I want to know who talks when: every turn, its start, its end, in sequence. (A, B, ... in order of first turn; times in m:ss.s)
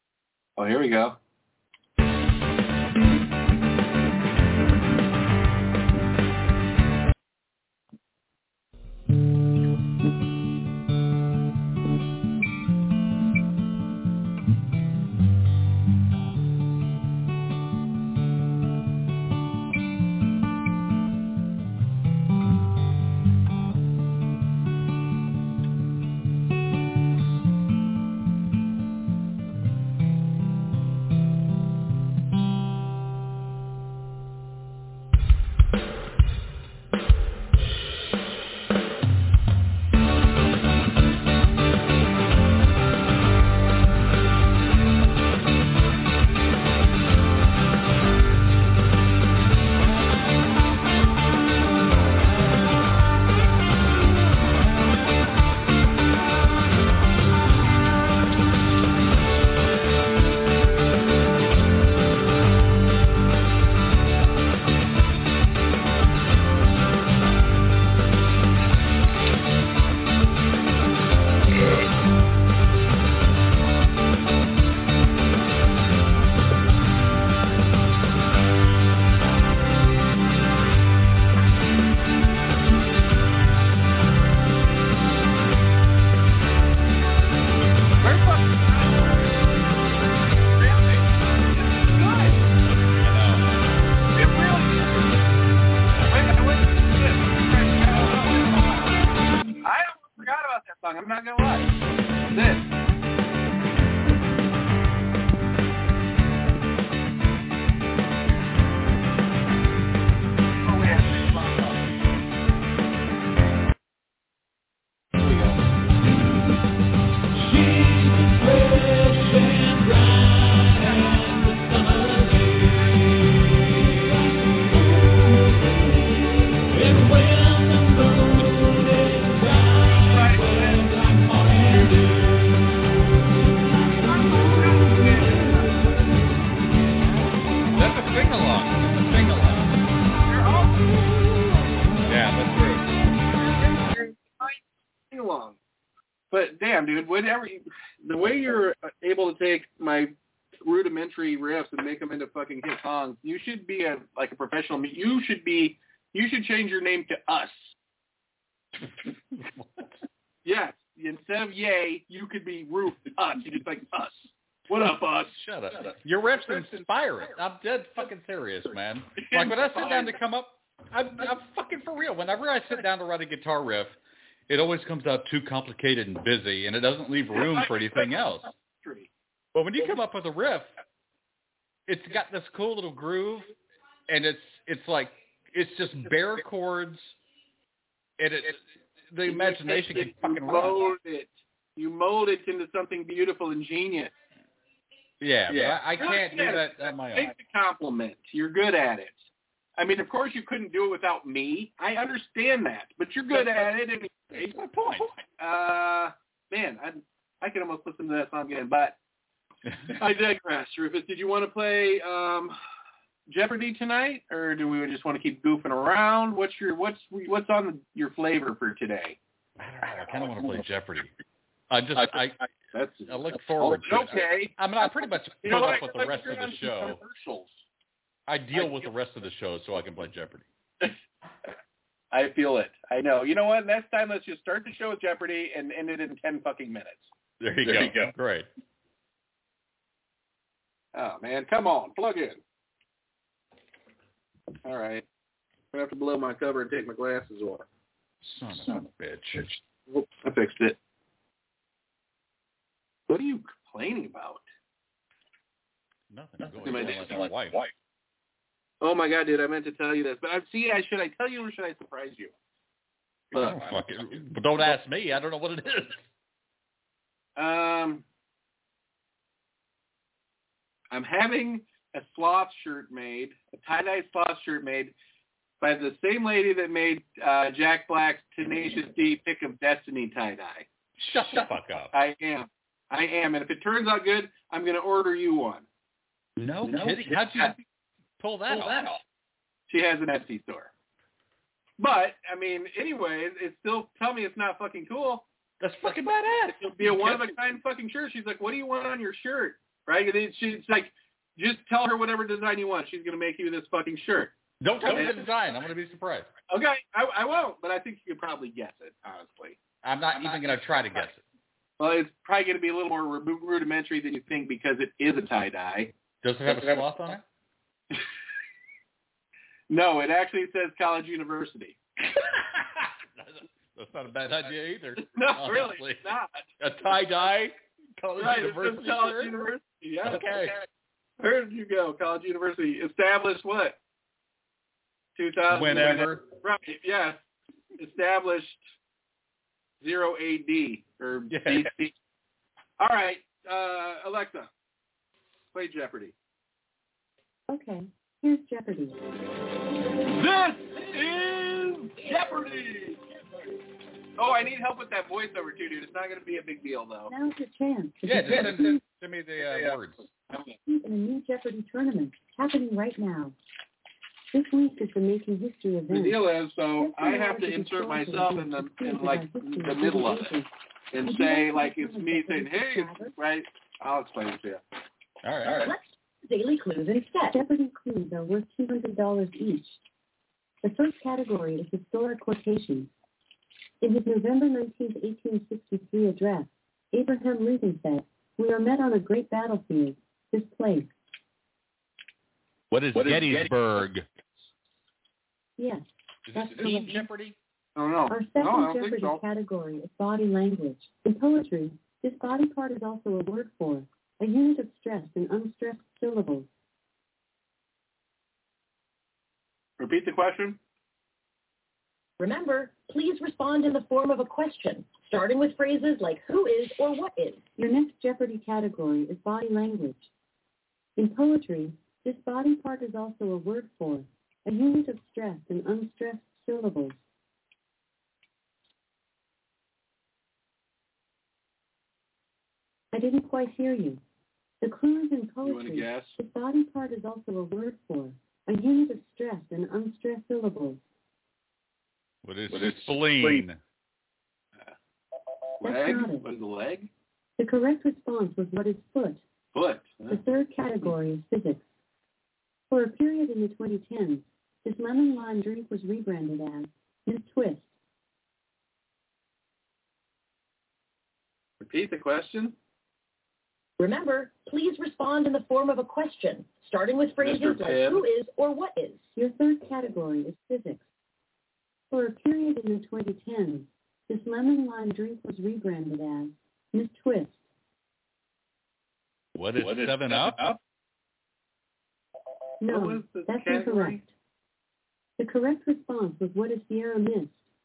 0:00.6-0:01.2 A
1:28.0-1:29.3 A
1:30.5-1:32.4 A
1:33.0-1:33.5 B
1:34.1-1:35.2 A
1:36.1-1:38.9 A
1:39.6-1:41.8 A
1:42.3-1:42.7 A
1:50.6-1:51.8 A
1:55.2-1:55.6 A
2:10.0-2:10.9 A
2:14.0-2:15.7 A
2:17.8-2:19.8 B
2:20.3-2:20.9 A
2:22.1-2:22.9 B
2:23.4-2:25.6 A
2:26.3-2:30.1 A
2:30.6-2:37.8 A
2:39.4-2:39.9 B
2:40.4-2:45.4 A
2:45.3-2:54.0 B
2:49.2-2:50.2 A
2:54.5-2:58.5 B
2:57.3-2:59.1 A
2:59.5-3:00.7 B
3:01.9-3:03.5 B
3:04.1-3:07.1 B
3:08.2-3:08.6 B
3:09.1-3:10.9 B
3:09.2-3:14.1 A
3:15.2-3:17.3 B
3:15.5-3:24.6 A
3:23.3-3:23.6 B
3:24.3-3:25.2 B
3:25.4-3:29.0 A
3:29.9-3:32.6 A
3:33.3-3:39.2 A
3:39.6-3:41.1 B
3:41.7-3:42.4 B
3:42.7-3:47.6 A
3:43.1-3:47.0 B
3:48.3-3:50.5 B
3:48.5-3:48.9 A
3:52.1-3:57.1 A
3:57.4-3:58.5 B
4:00.9-4:02.4 A
4:04.6-4:05.0 A
4:05.7-4:07.7 A
4:08.2-4:09.5 B
4:09.9-4:10.8 A
4:13.1-4:14.4 A
4:16.1-4:17.6 B
4:16.6-4:17.3 A
4:18.8-4:22.3 A
4:23.3-4:23.7 A
4:23.3-4:26.0 B
4:27.4-4:28.0 A
4:30.9-4:34.9 A
4:35.6-4:40.7 A
4:41.0-4:41.9 B
4:41.9-4:45.7 A
4:46.4-4:47.6 B
4:48.2-4:48.9 B
4:49.7-4:50.7 A
4:51.8-4:55.3 A
4:55.6-4:57.3 B
4:56.6-5:05.3 A
5:04.6-5:06.3 B
5:06.5-5:09.6 A
5:09.8-5:11.2 B
5:10.1-5:10.7 A
5:11.8-5:15.9 A
5:16.2-5:17.2 B
5:16.5-5:16.8 A
5:19.7-5:21.8 A
5:22.4-5:26.1 B
5:25.0-5:26.4 A
5:26.6-5:29.4 B
5:28.2-5:30.6 A
5:30.0-5:30.6 B
5:31.2-5:33.8 A
5:35.2-5:37.3 A
5:35.5-5:36.3 B
5:37.8-5:38.6 A
5:39.8-5:42.0 A
5:41.3-5:41.7 B
5:42.8-5:44.5 A
5:45.5-5:46.1 A
5:47.5-5:49.0 C
5:50.1-5:53.0 A
5:54.2-5:57.1 A
5:57.1-5:58.8 C
5:58.0-6:00.0 B
5:59.5-5:59.8 A
6:00.3-6:00.6 A
6:00.7-6:03.3 C
6:04.3-6:06.2 C
6:05.9-6:10.3 A
6:06.8-6:10.5 C
6:10.9-6:14.6 A
6:11.0-6:13.2 C
6:15.2-6:15.7 B
6:15.6-6:17.4 D
6:17.3-6:19.8 C
6:20.6-6:22.9 C
6:23.8-6:30.9 C
6:32.7-6:34.0 B
6:35.6-6:37.1 C
6:36.3-6:37.4 B
6:37.8-6:39.2 A
6:38.1-6:46.5 C
6:49.8-6:50.6 A
6:52.2-6:57.5 D
6:57.6-7:00.1 C
7:01.0-7:07.0 C
7:12.9-7:14.0 C
7:14.6-7:20.8 C
7:15.4-7:16.2 A
7:22.2-7:23.6 B
7:25.6-7:26.9 A
7:25.6-7:26.3 C
7:27.4-7:29.2 C
7:29.5-7:30.2 A
7:30.1-7:31.7 C
7:32.7-7:37.7 C
7:41.6-7:42.6 A
7:43.8-7:49.1 D
7:47.2-7:48.0 A
7:49.2-7:50.8 C
7:51.9-7:57.4 C
7:59.3-8:00.4 B
7:59.6-8:00.6 A
8:02.6-8:04.1 C
8:02.7-8:04.0 A
8:05.2-8:07.5 C